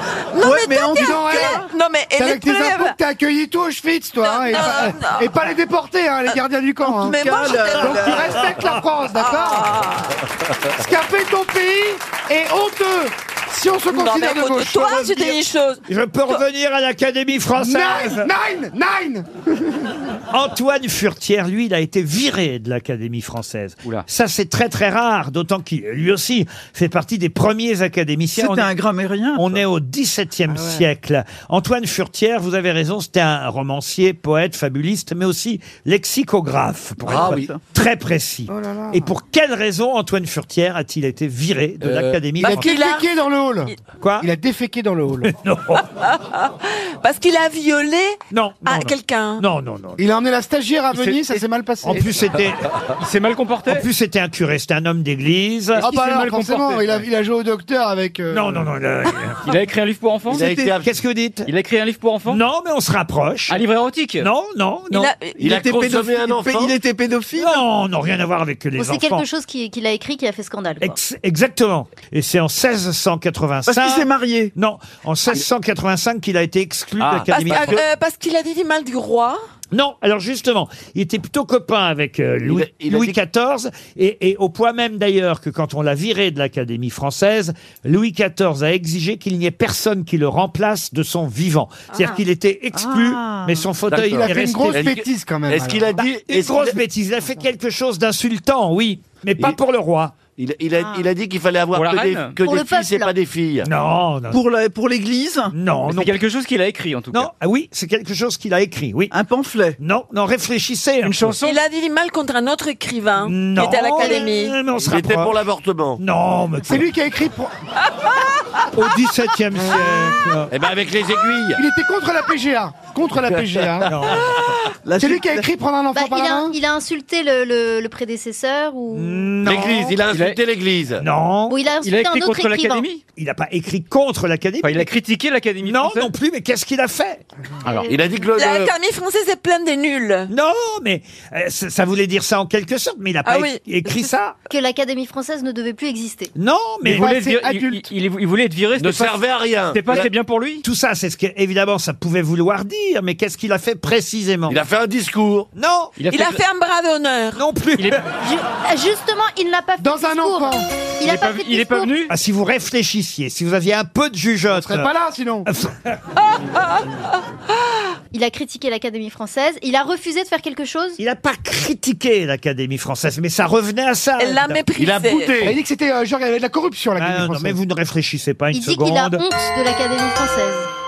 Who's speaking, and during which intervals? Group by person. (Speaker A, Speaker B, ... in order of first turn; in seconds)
Speaker A: 0.3-3.0, 4.2-5.5, 7.0-8.5, 9.1-10.2, 13.9-15.8, 42.5-43.1, 45.9-49.5, 64.9-65.4, 77.3-79.4, 111.4-114.6, 138.4-140.3, 143.2-144.1, 156.1-157.4, 174.2-175.5
Speaker B: 0.4-1.6, 7.0-8.3, 28.4-29.6, 37.2-37.6, 60.3-60.7, 65.4-67.6, 73.7-74.5, 104.3-105.5, 109.1-109.8, 124.8-125.5
Speaker C: 0.9-1.6, 2.2-7.2, 7.8-9.8, 10.8-15.4, 17.6-19.9, 30.5-30.9, 38.5-39.1, 42.4-45.3, 50.0-52.2, 55.8-58.7, 93.9-96.0, 116.7-117.5, 121.6-123.9, 125.0-126.6, 146.9-147.9, 159.8-160.7, 164.5-165.5, 175.4-177.6
Speaker D: 15.9-18.3, 20.3-28.7, 29.4-42.8, 44.0-44.3, 45.2-45.9, 48.3-50.0, 51.8-52.7, 53.7-55.9, 58.3-59.5, 60.8-61.5, 62.3-63.6, 64.2-65.1, 67.4-69.3, 70.8-77.8, 79.7-95.0, 96.0-100.2, 103.6-104.4, 105.5-106.1, 107.1-109.1, 109.8-111.4, 113.2-115.4, 116.0-116.9, 118.7-120.5, 123.9-124.4, 128.9-130.0, 131.0-131.6, 133.2-134.9, 135.6-137.2, 140.3-144.4, 146.4-147.1, 150.6-154.6, 155.6-155.9, 157.3-158.0, 162.1-164.9, 165.5-166.0, 171.0-174.6, 177.0-179.2
Speaker E: 37.0-37.5, 60.3-60.9, 65.4-66.8, 77.0-77.8, 82.4-83.2, 93.9-96.8, 100.2-103.7, 114.8-116.0, 120.5-121.6, 123.3-124.3, 129.4-131.0, 137.8-138.7, 148.8-150.1, 154.5-155.5, 174.8-175.6
Speaker F: 50.9-51.4, 53.0-53.9, 55.8-57.0, 59.5-60.5, 61.5-62.4, 63.5-64.3, 101.7-102.4, 105.9-107.3, 111.0-111.6, 130.1-130.4, 131.8-133.0, 134.6-136.1, 146.8-150.6, 156.0-156.4, 161.0-162.1
Speaker G: 68.8-71.0, 102.4-103.1, 125.9-129.3, 131.5-132.9, 144.5-146.3, 158.2-161.9, 168.1-171.0, 178.5-180.7